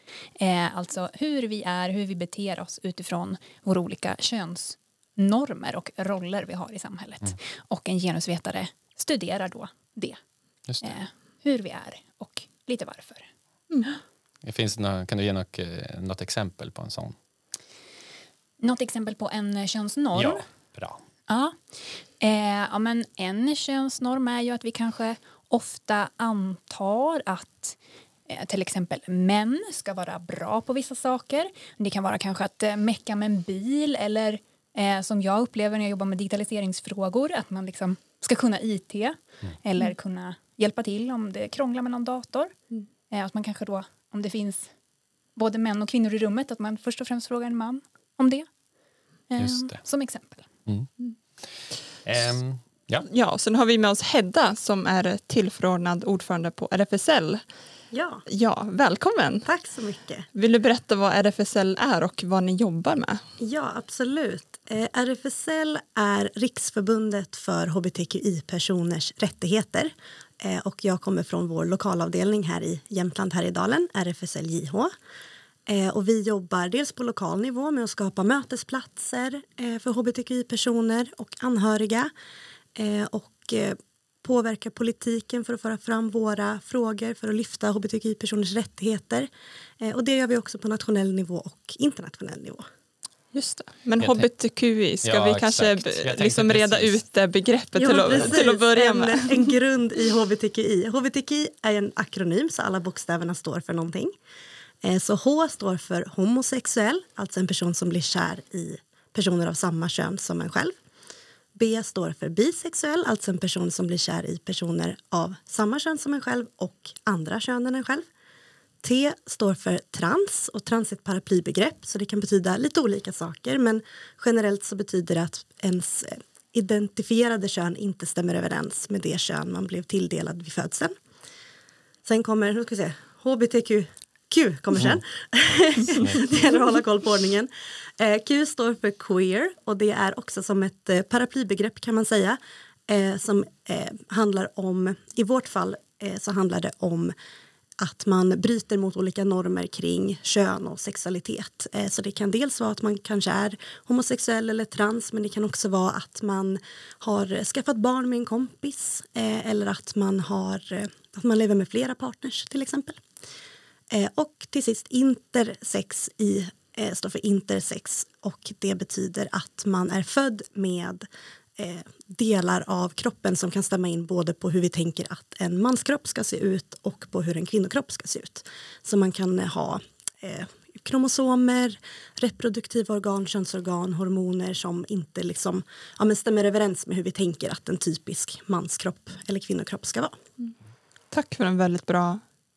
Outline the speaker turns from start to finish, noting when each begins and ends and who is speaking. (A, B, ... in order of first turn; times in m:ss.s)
0:00.4-0:10.2 A
0:10.7-0:10.9 B
0:10.8-0:13.3 A
0:13.7-0:14.0 C
0:14.4-0:17.1 B
0:18.6-0:20.4 A
0:20.1-0:21.0 B
0:21.3-0:27.8 A
0:28.3-0:42.5 A
0:43.1-0:44.7 A
0:45.4-0:48.5 A
0:49.3-0:50.5 A
0:49.4-0:49.8 B
0:52.0-0:53.0 B
0:53.0-0:57.4 C
0:57.9-0:58.2 D
0:58.3-0:59.5 C
0:59.4-1:00.2 D
1:00.3-1:03.2 C
1:03.4-1:14.9 D
1:15.7-1:22.1 D
1:22.8-1:29.3 D
1:29.8-1:32.6 D
1:33.3-1:39.5 C
1:34.0-1:34.3 B
1:35.0-1:37.0 B
1:37.8-1:44.1 D
1:44.8-1:50.8 D
1:51.5-1:58.1 D
1:58.8-2:10.9 D
2:12.0-2:27.1 D
2:15.9-2:16.3 B
2:27.8-2:43.0 D
2:43.9-2:51.0 D
2:51.6-3:10.2 D
3:11.1-3:12.2 C